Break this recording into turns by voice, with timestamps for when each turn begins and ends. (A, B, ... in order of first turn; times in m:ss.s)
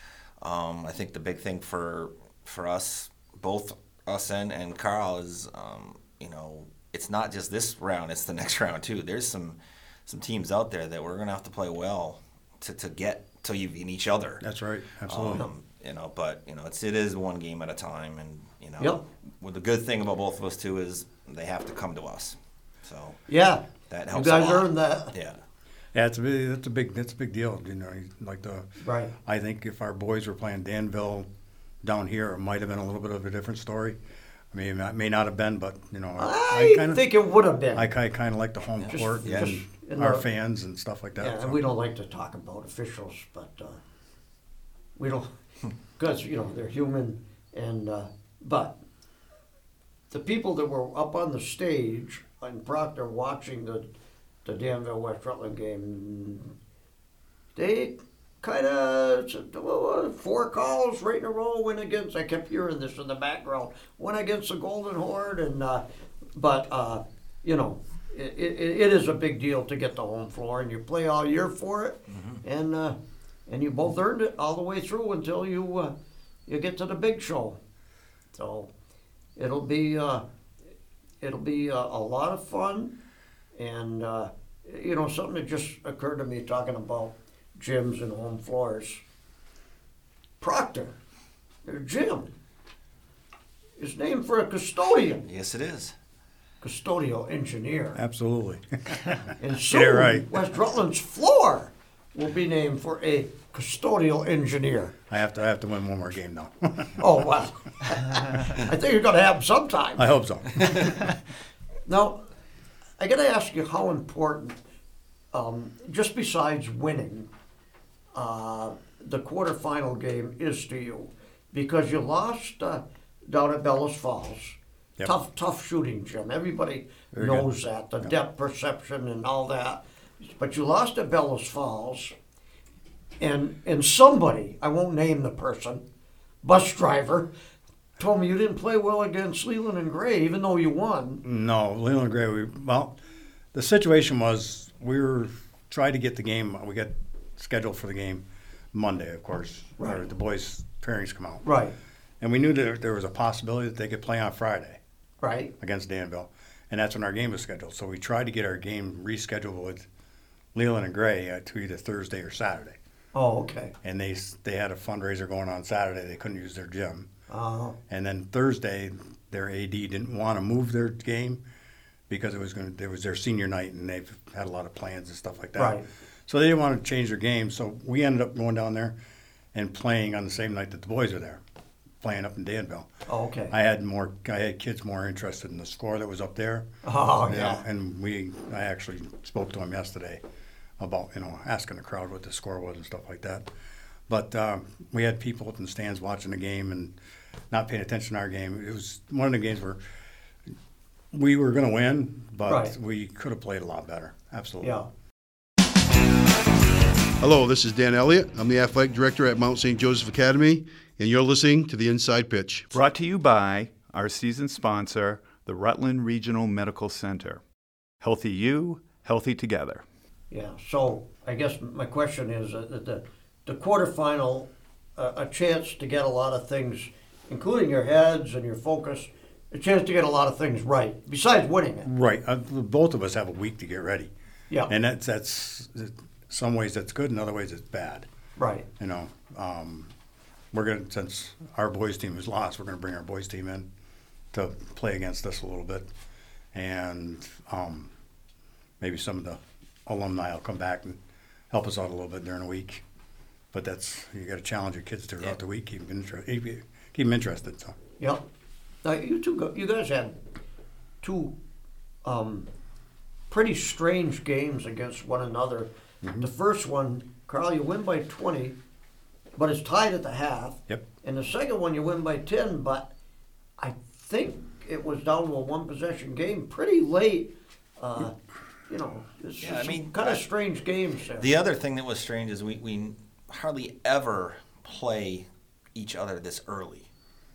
0:00.4-0:14.4 A
0:14.4-0:15.5 B
0:15.1-0:23.2 A
0:23.3-0:25.1 C
0:23.9-0:25.4 A
0:25.9-0:28.7 B
0:28.8-0:29.1 C
0:29.2-0:31.3 B
0:31.8-0:34.0 B
0:34.5-0:37.0 B
0:36.2-0:37.9 C
0:37.7-0:41.7 B
0:38.9-0:40.2 C
0:39.2-0:39.5 A
0:41.2-0:43.8 C
0:45.0-0:45.3 C
0:46.0-0:48.8 C
0:50.1-0:53.9 C
0:54.4-0:56.5 C
0:57.6-1:05.8 C
1:06.4-1:15.9 C
1:16.5-1:17.6 C
1:18.4-1:18.7 C
1:19.4-1:20.2 C
1:21.2-1:22.9 C
1:23.6-1:29.0 C
1:30.4-1:31.0 C
1:31.6-1:32.3 C
1:33.8-1:35.3 C
1:35.3-1:36.0 A
1:36.6-1:38.0 C
1:38.0-1:40.3 B
1:39.4-1:44.9 C
1:45.1-1:47.0 B
1:47.0-1:50.1 C
1:50.0-1:50.9 B
1:51.9-1:52.2 C
1:53.0-1:54.6 C
1:55.3-1:57.3 C
1:58.2-2:12.1 C
2:07.1-2:07.5 B
2:13.2-2:15.8 C
2:16.4-2:17.3 C
2:18.0-2:21.2 C
2:21.2-2:23.0 B
2:23.5-2:31.4 B
2:31.4-2:31.8 C
2:32.2-2:34.8 B
2:35.2-2:35.5 C
2:35.6-2:39.9 B
2:40.5-2:42.8 B
2:43.1-2:43.7 C
2:43.8-2:47.1 B
2:47.3-2:47.8 C
2:47.9-2:51.4 B
2:52.1-2:59.0 B
2:55.6-2:55.8 C
2:59.5-3:01.4 B
3:02.0-3:02.9 B
3:03.1-3:03.5 C
3:03.5-3:06.7 B
3:06.8-3:07.6 C
3:07.3-3:10.2 B
3:10.8-3:13.5 B
3:14.1-3:16.9 B
3:17.5-3:19.8 B
3:21.1-3:24.9 B
3:22.5-3:22.7 C
3:24.6-3:24.9 C
3:27.2-3:32.7 D
3:32.7-3:37.4 E
3:38.0-3:39.8 E
3:40.3-3:51.9 C
3:51.8-3:54.1 B
3:54.7-3:58.1 B
3:58.4-3:58.7 C
3:58.8-3:59.9 B
4:00.5-4:03.7 B
4:04.3-4:05.9 B
4:06.5-4:07.9 B
4:08.8-4:11.0 B
4:11.5-4:12.8 B
4:13.5-4:17.8 B
4:18.8-4:20.2 C
4:21.0-4:21.3 C
4:22.0-4:22.5 C
4:23.3-4:28.6 C
4:26.0-4:26.3 B
4:29.4-4:32.9 C
4:33.6-4:38.1 C
4:38.7-4:41.3 C
4:39.4-4:40.2 A
4:41.2-4:46.9 A